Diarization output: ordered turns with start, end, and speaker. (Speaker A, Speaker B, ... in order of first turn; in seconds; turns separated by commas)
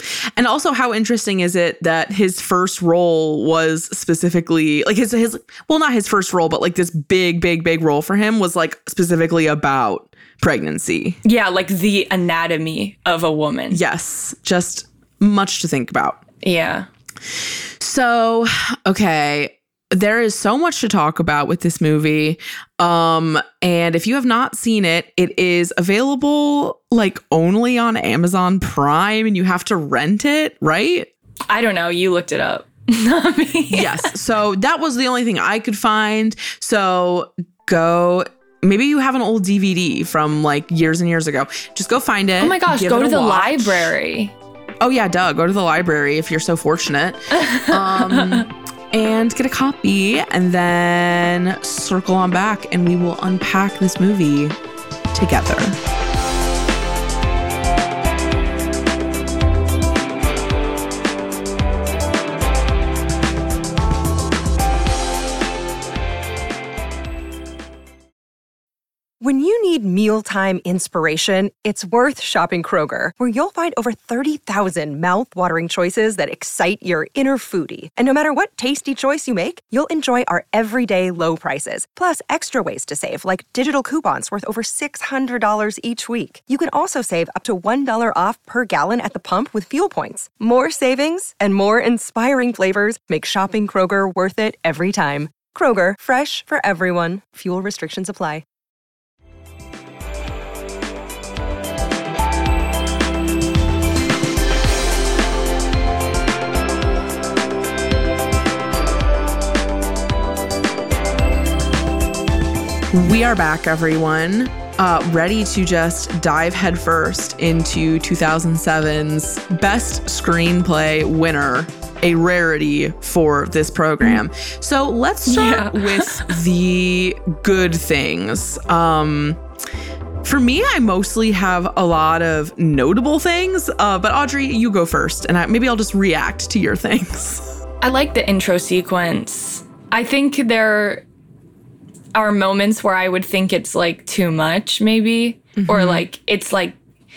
Speaker A: 0.3-11.2, Speaker B: 11.2-13.8, Speaker A: 13.7-16.2, Speaker B: 16.4-16.9, Speaker A: 17.8-31.1, Speaker B: 31.5-34.1, Speaker A: 33.7-43.9, Speaker B: 42.4-44.3, Speaker A: 44.8-54.5, Speaker B: 47.4-48.4, Speaker A: 55.1-55.8, Speaker C: 69.2-98.4, Speaker A: 112.9-129.4, Speaker B: 125.3-126.3, Speaker A: 130.2-137.5, Speaker B: 137.8-141.0, Speaker B: 142.1-146.7, Speaker A: 145.6-146.1